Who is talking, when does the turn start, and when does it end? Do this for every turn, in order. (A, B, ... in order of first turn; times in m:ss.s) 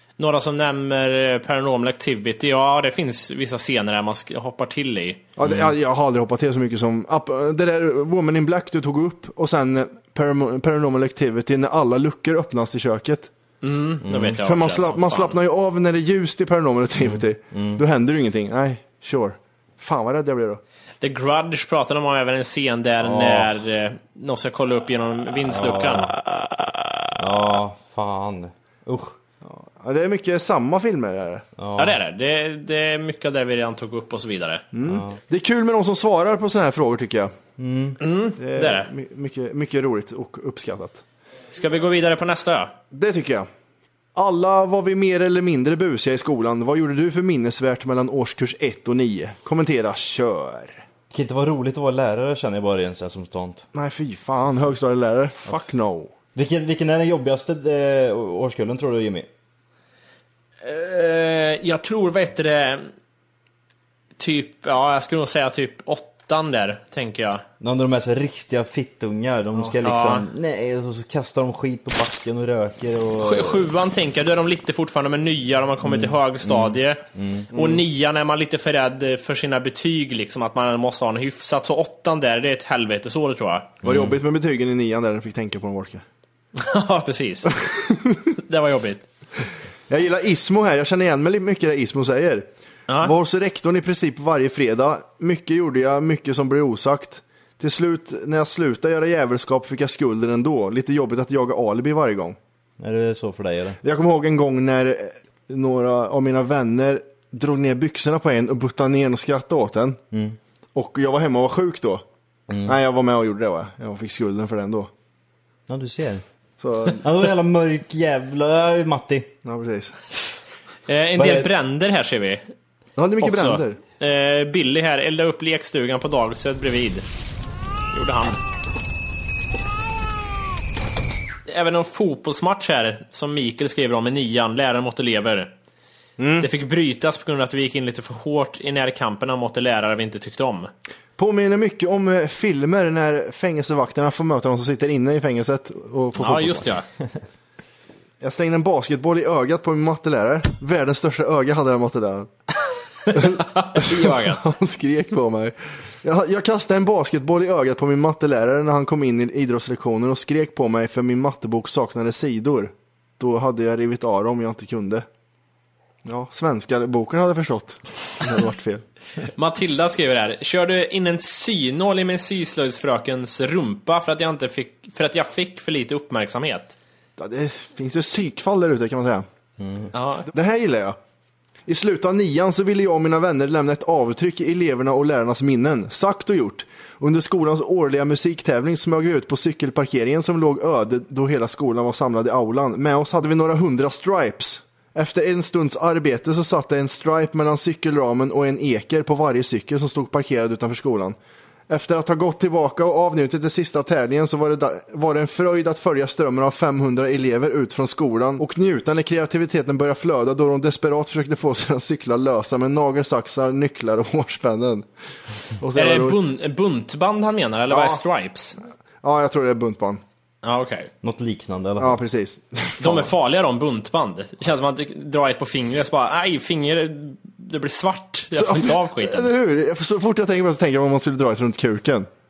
0:00.2-0:05.2 A
0:05.4-0:13.3 B
0:05.4-0:05.7 C
0:13.6-0:15.4 A
0:14.0-0:14.4 C
0:14.4-0:20.6 B
0:17.0-0:17.8 C
0:21.0-0:26.1 A
0:23.0-0:23.6 C
0:25.5-0:26.2 C
0:27.1-0:29.2 C
0:29.4-0:31.4 B
0:31.6-0:32.0 C
0:31.8-0:34.6 A
0:34.7-0:37.3 B
0:34.8-0:35.2 C
0:37.6-0:38.0 C
0:38.0-0:38.9 A
0:38.4-0:41.0 B
0:41.5-0:42.7 A
0:42.9-0:43.5 B
0:44.1-0:50.8 B
0:51.1-0:53.6 C
0:53.7-0:56.1 B
0:56.3-0:59.3 C
1:00.6-1:02.9 A
1:04.2-1:07.4 A
1:07.6-1:13.7 C
1:09.8-1:10.3 A
1:13.2-1:17.0 A
1:15.8-1:17.5 C
1:17.5-1:23.7 A
1:23.8-1:24.2 C
1:23.8-1:26.0 B
1:26.6-1:27.5 A
1:27.6-1:28.2 B
1:28.4-1:29.0 A
1:29.9-1:32.5 B
1:33.0-1:42.4 B
1:42.8-1:43.8 C
1:43.8-1:50.0 B
1:50.1-1:50.4 C
1:50.7-1:52.0 B
1:52.5-1:52.8 C
1:52.6-1:54.9 B
1:55.7-1:56.2 C
1:56.6-1:57.1 B
1:57.0-1:59.3 C
1:59.4-2:00.0 B
2:00.9-2:02.5 A
2:01.2-2:01.5 C
2:03.0-2:03.8 B
2:03.2-2:07.0 A
2:07.9-2:08.4 A
2:11.5-2:15.5 A
2:16.2-2:16.5 B
2:16.4-2:20.7 A
2:21.2-2:26.7 B
2:26.2-2:26.8 A
2:28.2-2:32.3 B
2:33.1-2:34.4 A
2:33.1-2:45.0 B
2:46.0-2:48.8 B
2:49.4-2:56.8 A
2:57.2-2:59.2 B
2:59.6-2:59.9 C
2:59.9-3:00.3 A
3:00.3-3:01.0 B
3:01.7-3:21.2 B
3:21.7-3:34.8 B
3:35.6-3:36.2 B
3:35.7-3:38.6 A
3:37.7-3:38.0 B
3:39.0-3:40.0 B
3:40.4-3:40.9 A
3:41.0-3:42.0 C
3:41.8-3:43.1 B
3:42.8-3:49.3 A
3:48.3-3:52.1 B